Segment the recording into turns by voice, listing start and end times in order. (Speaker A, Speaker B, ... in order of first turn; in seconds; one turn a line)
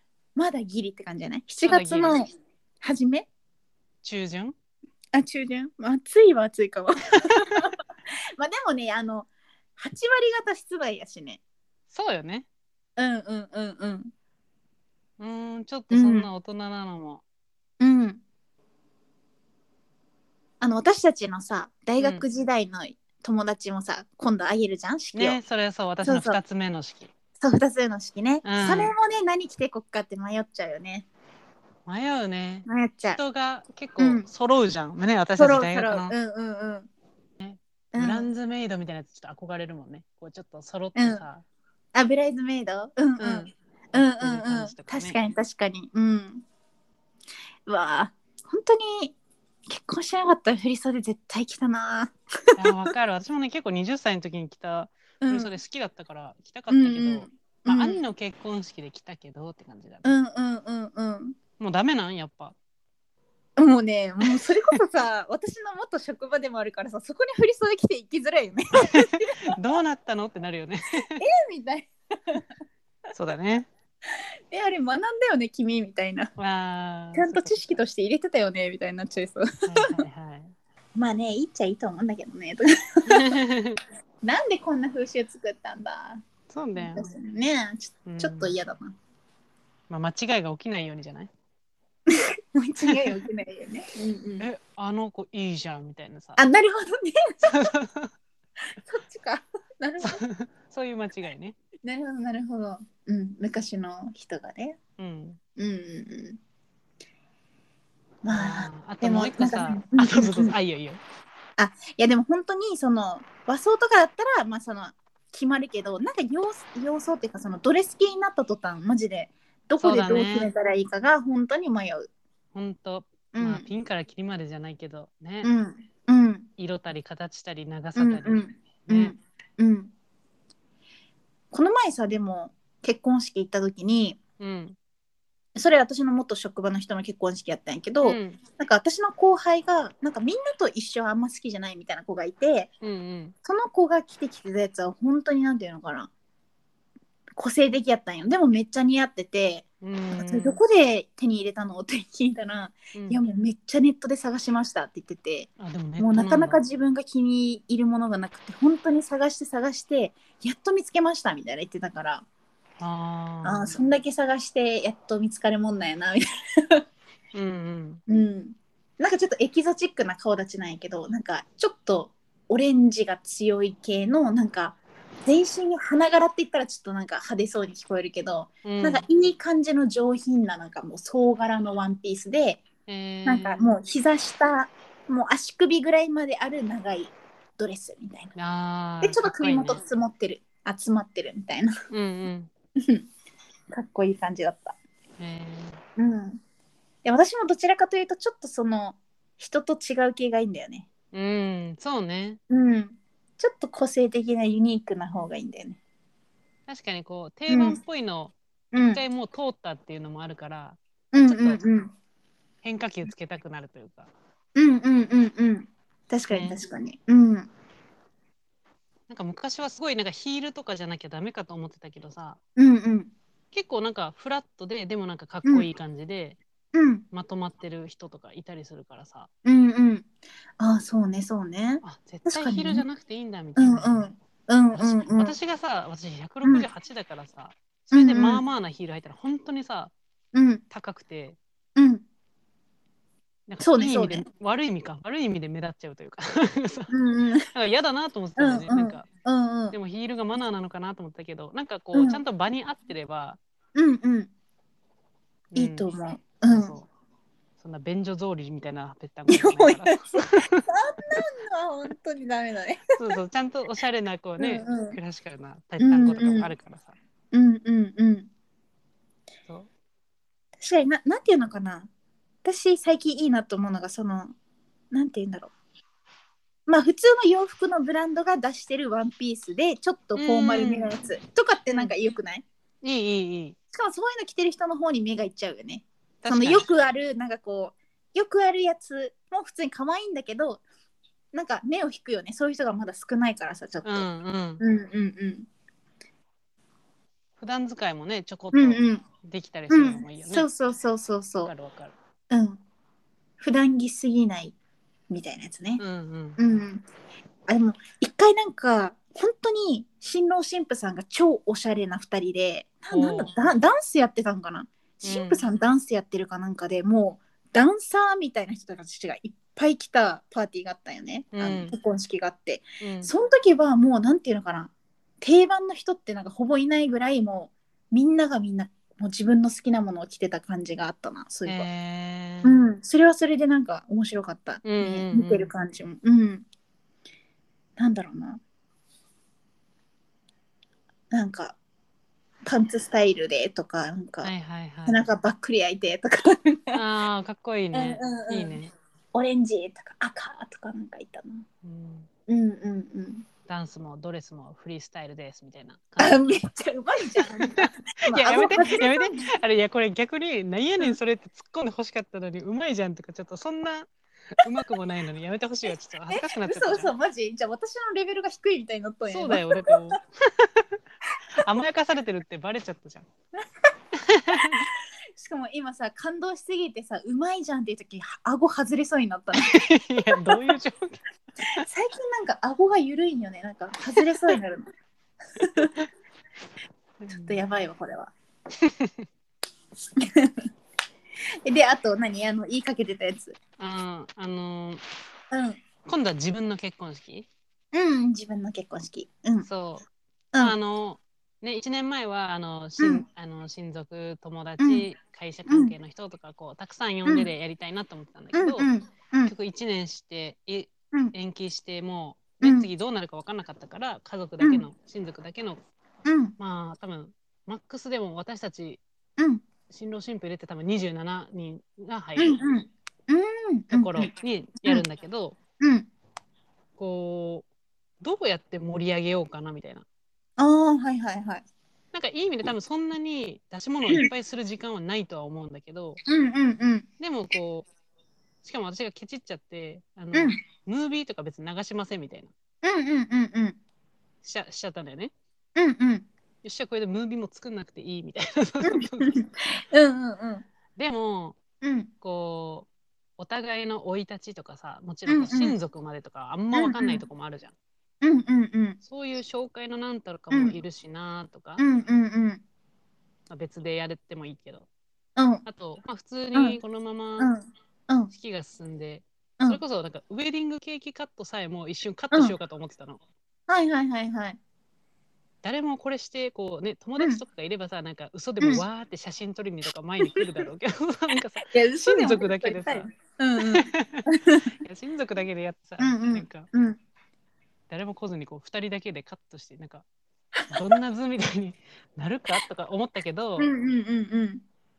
Speaker A: 0.4-3.3
Speaker B: 1.6-2.2
Speaker B: 4.0-4.5
Speaker A: 5.1-7.8
Speaker A: 8.4-11.4
Speaker B: 11.9-12.5
Speaker A: 13.0-14.1
Speaker B: 15.2-17.2
Speaker A: 15.9-16.3
Speaker A: 17.8-18.2
Speaker A: 20.6-25.4
Speaker B: 22.0-22.2
Speaker B: 25.1-27.1
Speaker A: 26.0-26.4
Speaker A: 27.4-31.1
Speaker B: 28.4-28.9
Speaker B: 31.9-36.1
Speaker A: 32.6-33.2
Speaker A: 34.0-34.3
Speaker A: 35.4-36.9
Speaker B: 37.4-41.4
Speaker A: 37.9-38.3
Speaker A: 40.9-41.2
Speaker A: 41.9-46.4
Speaker B: 43.2-45.2
Speaker A: 47.6-49.1
Speaker A: 49.7-52.9
Speaker B: 52.5-60.1
Speaker A: 55.2-55.5
Speaker A: 56.7-58.0
Speaker A: 60.0-61.4
Speaker B: 61.6-62.5
Speaker A: 63.6-69.4
Speaker B: 68.9-71.2
Speaker A: 71.2-72.4
Speaker B: 73.1-73.7
Speaker A: 74.5-76.3
Speaker B: 76.4-77.8
Speaker A: 77.1-80.0
Speaker B: 79.7-80.5
Speaker A: 81.0-83.3
Speaker B: 83.1-83.8
Speaker A: 84.2-86.2
Speaker B: 86.5-87.1
Speaker A: 86.7-88.9
Speaker B: 88.0-88.5
Speaker B: 89.9-91.3
Speaker A: 92.1-94.5
Speaker B: 92.8-93.2
Speaker B: 94.4-96.4
Speaker A: 96.4-97.7
Speaker B: 97.4-98.1
Speaker A: 98.8-100.2
Speaker B: 100.0-101.6
Speaker A: 101.8-104.8
Speaker B: 105.0-105.4
Speaker A: 105.6-106.4
Speaker A: 108.2-110.5
Speaker B: 108.3-111.0
Speaker A: 111.6-122.1
Speaker B: 119.8-120.5
Speaker B: 122.5-125.5
Speaker A: 123.3-123.7
Speaker A: 125.4-126.5
Speaker B: 126.6-129.1
Speaker A: 128.0-129.9
Speaker A: 131.5-134.2
Speaker B: 134.4-134.8
Speaker A: 135.5-142.7
Speaker B: 138.0-138.4
Speaker B: 142.8-143.3
Speaker A: 143.4-146.1
Speaker A: 147.4-162.2
Speaker B: 149.8-150.6
Speaker B: 152.9-153.2
Speaker B: 155.6-156.6
Speaker B: 162.8-163.7
Speaker A: 163.4-166.8
Speaker B: 167.3-168.0
Speaker A: 168.1-182.6
Speaker B: 178.6-179.1
Speaker B: 182.9-183.7
Speaker A: 183.2-188.3
Speaker B: 188.3-189.8
Speaker A: 189.0-191.7
Speaker B: 191.9-192.5
Speaker A: 192.8-193.1
Speaker A: 193.7-194.8
Speaker B: 195.2-195.8
Speaker A: 196.0-196.4
Speaker A: 197.0-200.9
Speaker B: 201.1-202.4
Speaker A: 202.5-205.8
Speaker B: 206.7-211.6
Speaker A: 207.5-207.8
Speaker A: 208.7-209.0
Speaker A: 211.1-211.9
Speaker B: 212.6-214.1
Speaker A: 214.6-217.5
Speaker B: 216.3-216.6
Speaker B: 219.1-222.4
Speaker A: 222.6-223.1
Speaker B: 223.5-226.4
Speaker A: 226.7-227.0
Speaker B: 227.1-229.3
Speaker A: 229.4-230.1
Speaker A: 230.6-232.8
Speaker B: 231.8-234.0
Speaker A: 233.6-235.4
Speaker B: 234.7-239.9
Speaker A: 237.9-238.4
Speaker A: 240.3-240.6
Speaker B: 240.7-241.4
Speaker A: 241.8-242.0
Speaker B: 243.5-246.9
Speaker A: 243.6-244.2
Speaker A: 246.9-247.5
Speaker B: 247.5-249.1
Speaker A: 248.4-249.8
Speaker B: 249.7-253.4
Speaker A: 251.9-252.2
Speaker A: 253.8-254.3
Speaker B: 255.5-255.9
Speaker A: 255.5-256.7
Speaker B: 256.4-256.9
Speaker B: 257.6-261.2
Speaker A: 259.3-262.8
Speaker B: 262.9-266.9
Speaker A: 264.4-265.0
Speaker A: 265.8-266.5
Speaker A: 267.3-268.3
Speaker A: 270.6-271.9
Speaker A: 272.4-274.3
Speaker A: 274.9-275.5
Speaker A: 276.7-282.4
Speaker B: 280.1-280.9
Speaker B: 281.7-281.9
Speaker B: 282.8-283.6
Speaker A: 283.7-290.6
Speaker B: 286.2-286.6
Speaker A: 291.3-294.1
Speaker B: 293.8-294.6
Speaker A: 294.6-295.5
Speaker B: 297.4-300.5
Speaker A: 298.5-299.0
Speaker A: 299.7-301.5
Speaker B: 301.4-301.9
Speaker A: 302.3-302.6
Speaker A: 303.4-304.5
Speaker A: 305.1-305.8
Speaker B: 305.8-306.4
Speaker A: 306.4-306.9
Speaker A: 307.5-331.7
Speaker B: 312.9-313.3
Speaker B: 315.0-315.4
Speaker B: 321.3-321.7
Speaker B: 322.8-323.1
Speaker B: 331.4-332.5
Speaker A: 332.4-336.4
Speaker B: 334.6-335.5
Speaker A: 337.8-338.4
Speaker A: 341.1-341.6
Speaker A: 342.4-344.3
Speaker B: 344.2-345.0
Speaker A: 344.9-346.8
Speaker B: 346.7-348.7
Speaker A: 347.7-348.6
Speaker A: 349.1-351.4
Speaker B: 351.6-352.1
Speaker A: 352.3-353.2
Speaker B: 353.5-356.4
Speaker A: 356.0-359.2
Speaker B: 357.2-366.9
Speaker A: 366.1-369.9
Speaker B: 369.1-370.8
Speaker B: 371.4-373.1
Speaker B: 374.1-374.6
Speaker A: 374.3-380.4
Speaker B: 379.4-381.0
Speaker A: 381.6-384.7
Speaker B: 384.0-384.4
Speaker A: 385.4-385.7
Speaker B: 385.6-385.9
Speaker B: 387.0-387.4
Speaker A: 387.1-388.1
Speaker B: 388.6-389.1
Speaker A: 390.0-390.5
Speaker A: 391.4-393.4
Speaker B: 393.6-394.8
Speaker A: 395.3-395.6
Speaker B: 395.9-397.3
Speaker A: 397.7-399.5
Speaker B: 399.4-399.9
Speaker B: 400.4-408.7
Speaker A: 402.8-403.0
Speaker A: 404.6-404.9
Speaker A: 405.5-405.7
Speaker A: 407.0-407.3
Speaker A: 408.3-409.3
Speaker B: 409.2-415.6
Speaker A: 412.4-412.7
Speaker A: 416.1-416.3
Speaker B: 416.4-418.8
Speaker A: 419.2-419.4
Speaker B: 419.7-422.4
Speaker A: 422.2-424.1
Speaker B: 423.7-425.4
Speaker A: 425.6-425.9
Speaker B: 426.8-427.4
Speaker B: 428.0-429.9
Speaker A: 430.4-431.4
Speaker B: 431.9-436.0
Speaker A: 436.1-436.9
Speaker B: 437.0-437.7
Speaker B: 438.4-442.3
Speaker A: 440.1-440.4
Speaker A: 442.6-443.6
Speaker B: 444.2-445.1
Speaker A: 445.6-446.1
Speaker B: 446.4-449.2
Speaker A: 448.6-450.4
Speaker B: 450.8-451.4
Speaker A: 451.6-451.9
Speaker B: 452.0-457.5
Speaker A: 455.1-455.6
Speaker A: 456.5-457.0
Speaker A: 458.0-458.8
Speaker B: 458.8-461.6
Speaker A: 460.3-460.6
Speaker A: 461.6-462.4
Speaker B: 463.3-464.7
Speaker A: 465.2-465.4
Speaker B: 465.4-467.3
Speaker A: 467.2-468.1
Speaker B: 468.1-473.0
Speaker A: 473.5-474.4
Speaker B: 475.4-482.9
Speaker A: 481.5-484.5
Speaker B: 483.4-484.1
Speaker B: 484.6-486.5
Speaker A: 485.8-486.8
Speaker B: 487.7-489.9
Speaker B: 490.5-493.5
Speaker A: 493.4-494.4